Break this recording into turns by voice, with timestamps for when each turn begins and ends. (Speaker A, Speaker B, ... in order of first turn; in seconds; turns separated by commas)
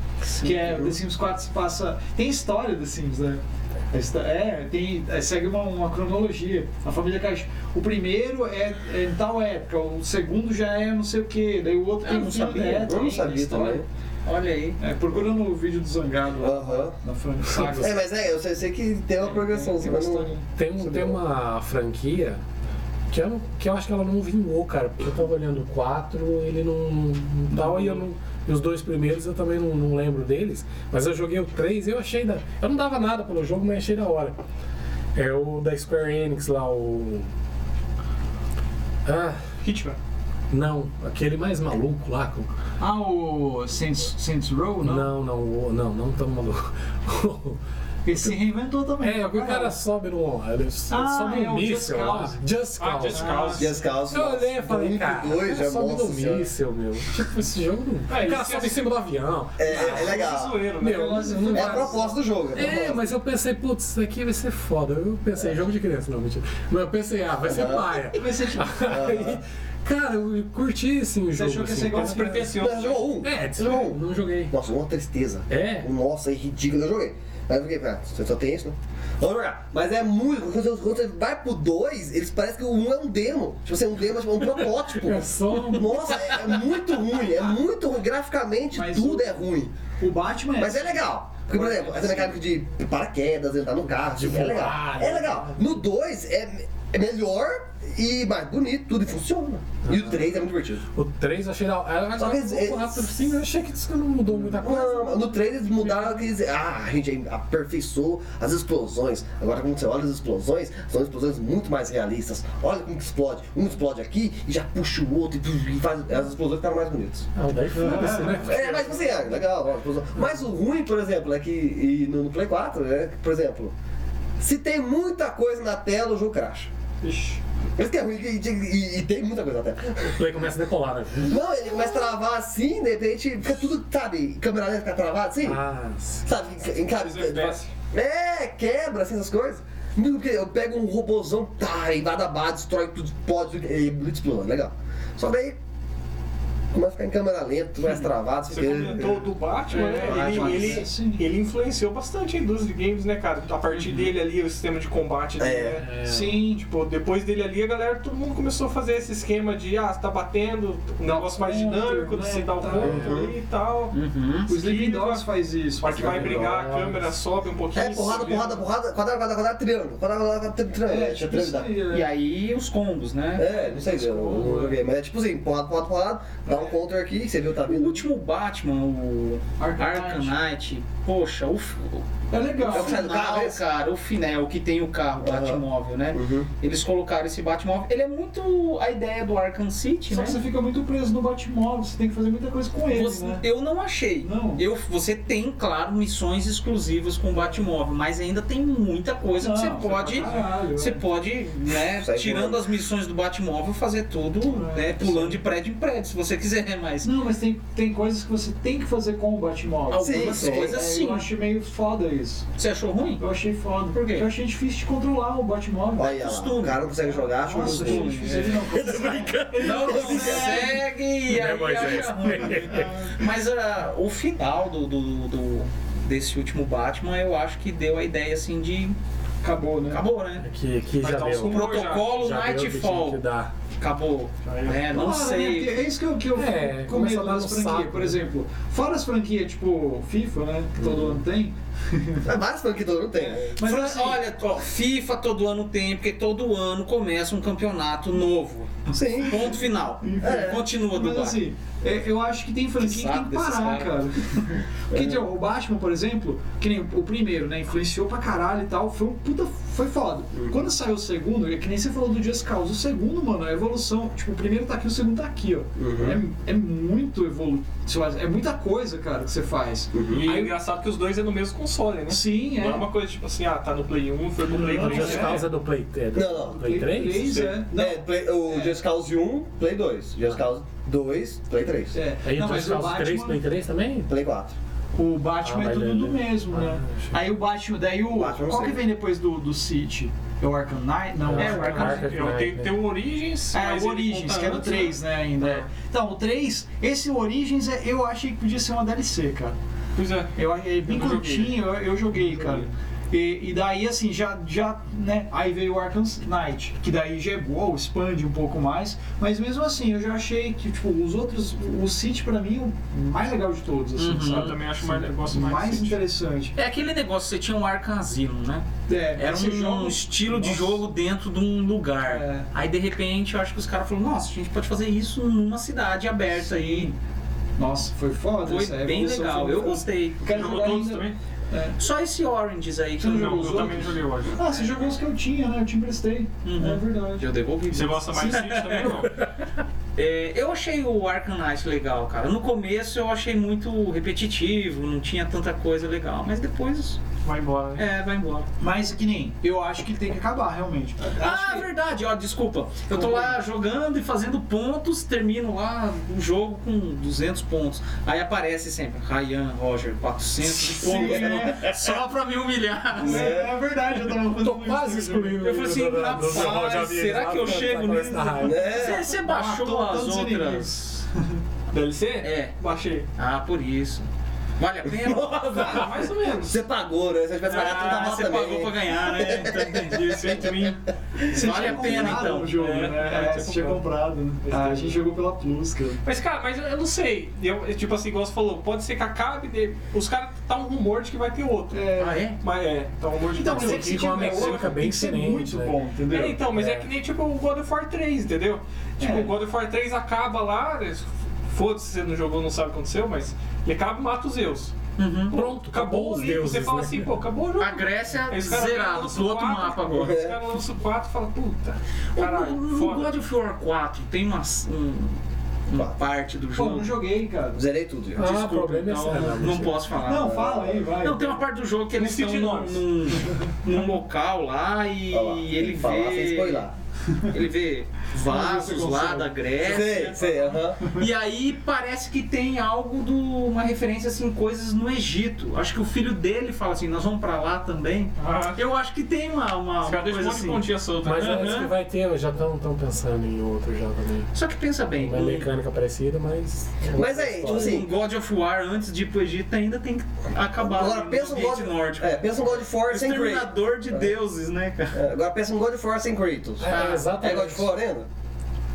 Speaker A: 0.2-0.9, Speaker B: 0.4-3.4, Speaker B: 3.9-13.8, Speaker A: 12.0-13.0, Speaker C: 12.8-13.8, Speaker A: 14.2-14.8, Speaker B: 14.8-18.0, Speaker C: 16.4-16.9, Speaker D: 17.5-17.9, Speaker C: 17.6-21.2, Speaker B: 19.2-20.4, Speaker D: 20.6-22.4, Speaker D: 23.1-34.4, Speaker B: 27.5-27.8, Speaker D: 35.1-37.3, Speaker D: 39.0-39.4, Speaker E: 39.6-40.0, Speaker D: 40.5-42.5, Speaker B: 42.8-45.1, Speaker D: 44.8-47.6, Speaker B: 48.0-49.7, Speaker D: 49.0-53.3, Speaker B: 50.9-52.4, Speaker E: 52.8-53.8, Speaker B: 53.1-53.7, Speaker C: 53.5-56.5, Speaker D: 54.1-61.9, Speaker E: 58.1-58.8, Speaker C: 59.6-60.7, Speaker E: 59.6-61.7, Speaker B: 60.9-62.1, Speaker C: 61.5-63.0, Speaker D: 62.5-72.3, Speaker C: 67.4-68.0, Speaker B: 68.1-68.9, Speaker C: 68.8-69.4, Speaker B: 71.3-72.6, Speaker E: 71.9-73.1, Speaker C: 72.5-89.8, Speaker D: 73.2-74.5, Speaker D: 75.5-75.9, Speaker D: 84.4-86.5, Speaker B: 88.7-92.4, Speaker C: 90.6-100.8, Speaker D: 94.0-95.8, Speaker D: 99.8-106.2, Speaker C: 102.1-103.0, Speaker C: 104.6-117.3, Speaker D: 117.3-119.3, Speaker B: 117.8-118.4, Speaker C: 118.3-123.7, Speaker C: 124.4-126.7, Speaker E: 127.0-127.4, Speaker C: 127.8-130.2, Speaker D: 130.0-131.4, Speaker C: 131.2-135.6, Speaker D: 135.4-136.3, Speaker C: 136.2-145.6, Speaker E: 136.9-137.7, Speaker C: 146.7-149.3, Speaker E: 148.5-155.8, Speaker B: 149.7-151.2, Speaker C: 150.0-150.8, Speaker A: 153.7-154.1, Speaker C: 155.4-155.8, Speaker B: 155.8-156.6, Speaker D: 155.8-156.4, Speaker E: 156.6-163.9, Speaker B: 161.0-163.1, Speaker C: 162.8-163.3, Speaker A: 163.9-164.5, Speaker B: 164.5-166.5, Speaker E: 164.5-165.2, Speaker E: 165.8-168.7, Speaker C: 165.9-166.5, Speaker D: 166.3-167.1, Speaker C: 167.7-171.7, Speaker B: 170.8-172.1, Speaker A: 171.9-173.5, Speaker C: 173.3-178.0, Speaker B: 173.5-174.8, Speaker B: 176.5-176.7, Speaker A: 177.6-190.4, Speaker B: 179.6-180.4, Speaker B: 182.3-183.1, Speaker C: 182.7-183.6, Speaker C: 185.2-186.5, Speaker B: 190.1-193.4, Speaker A: 192.9-207.1, Speaker B: 194.2-194.6, Speaker B: 199.4-201.0, Speaker C: 201.8-202.6, Speaker B: 204.5-205.4, Speaker B: 207.0-212.5, Speaker A: 209.9-211.3, Speaker C: 210.0-210.8, Speaker A: 212.6-213.2, Speaker B: 213.2-216.3, Speaker A: 213.9-214.3, Speaker C: 215.9-220.7, Speaker A: 216.0-218.7, Speaker B: 217.0-220.8, Speaker D: 218.7-219.8, Speaker A: 219.6-229.0, Speaker D: 221.2-223.0, Speaker B: 221.9-223.2, Speaker B: 229.4-230.0, Speaker A: 229.9-230.4, Speaker D: 230.4-233.5, Speaker E: 231.0-232.1, Speaker A: 231.4-233.2, Speaker A: 233.8-235.9, Speaker E: 234.4-234.8, Speaker B: 234.8-242.3, Speaker D: 236.3-238.2, Speaker C: 242.2-243.5, Speaker B: 243.3-244.2, Speaker A: 243.6-251.4, Speaker B: 248.9-270.6, Speaker C: 248.9-249.6, Speaker C: 250.2-250.6, Speaker A: 252.8-254.0, Speaker C: 254.9-255.3, Speaker C: 265.8-266.2, Speaker C: 269.9-270.2, Speaker E: 270.1-275.4, Speaker B: 272.1-272.9, Speaker B: 274.5-275.5, Speaker D: 274.7-277.4, Speaker C: 276.1-276.6, Speaker B: 276.5-278.8, Speaker E: 277.2-277.6, Speaker C: 277.7-282.0, Speaker B: 281.9-283.4, Speaker D: 282.2-284.1, Speaker C: 284.1-284.5, Speaker B: 284.9-292.1, Speaker D: 285.4-287.2, Speaker C: 288.1-288.9, Speaker D: 291.2-292.8, Speaker A: 291.4-292.0, Speaker E: 291.8-295.6, Speaker B: 293.5-299.6, Speaker E: 299.9-300.3, Speaker B: 300.3-316.6, Speaker E: 300.9-301.6, Speaker A: 313.9-314.6, Speaker E: 314.2-316.0, Speaker A: 316.6-326.9, Speaker B: 318.9-320.8, Speaker B: 322.0-322.5, Speaker B: 326.3-326.9, Speaker B: 327.6-331.8, Speaker A: 328.4-330.2, Speaker E: 330.3-331.1, Speaker A: 331.8-333.8, Speaker B: 333.0-337.3, Speaker E: 333.0-334.4, Speaker A: 336.4-339.1, Speaker E: 337.7-339.2, Speaker A: 339.9-347.0, Speaker E: 347.2-347.9, Speaker A: 347.8-348.5, Speaker B: 348.6-351.7, Speaker A: 351.1-363.4, Speaker B: 352.9-353.4, Speaker B: 360.6-361.8, Speaker B: 363.0-365.4, Speaker C: 363.0-363.6, Speaker D: 364.4-368.6, Speaker A: 365.4-371.1, Speaker C: 368.4-369.1, Speaker B: 368.7-371.4, Speaker E: 371.7-373.1, Speaker A: 372.2-372.5, Speaker A: 373.2-374.1, Speaker A: 374.6-376.0, Speaker C: 375.0-380.1, Speaker E: 375.5-376.6, Speaker A: 377.4-380.6, Speaker E: 377.6-377.8, Speaker E: 379.8-380.8, Speaker B: 381.2-386.0, Speaker A: 381.3-382.6, Speaker E: 382.3-383.8, Speaker E: 384.4-385.0, Speaker E: 386.0-391.8, Speaker B: 391.7-392.3, Speaker A: 392.0-392.4, Speaker E: 392.4-394.7, Speaker B: 393.3-396.5, Speaker D: 393.4-395.8, Speaker E: 396.1-404.7, Speaker D: 396.6-396.8, Speaker B: 399.0-399.3, Speaker A: 405.0-405.4, Speaker D: 405.3-407.1, Speaker E: 405.3-413.1, Speaker A: 407.6-410.2, Speaker C: 409.9-410.4, Speaker A: 412.1-416.9, Speaker B: 416.5-417.6, Speaker C: 417.5-418.3, Speaker D: 418.1-419.8, Speaker A: 418.2-420.4, Speaker B: 420.0-421.4, Speaker C: 420.2-420.9, Speaker A: 421.0-426.7, Speaker E: 421.9-422.8, Speaker C: 425.1-426.7, Speaker A: 427.3-441.7, Speaker B: 428.2-431.1, Speaker C: 429.6-430.9, Speaker E: 438.2-438.6, Speaker E: 439.8-441.6, Speaker D: 441.0-444.3, Speaker A: 444.3-445.5, Speaker D: 445.0-447.8, Speaker C: 446.9-447.9, Speaker A: 447.4-455.0, Speaker C: 450.6-454.1, Speaker C: 454.9-458.1, Speaker D: 456.6-457.7, Speaker A: 456.6-457.1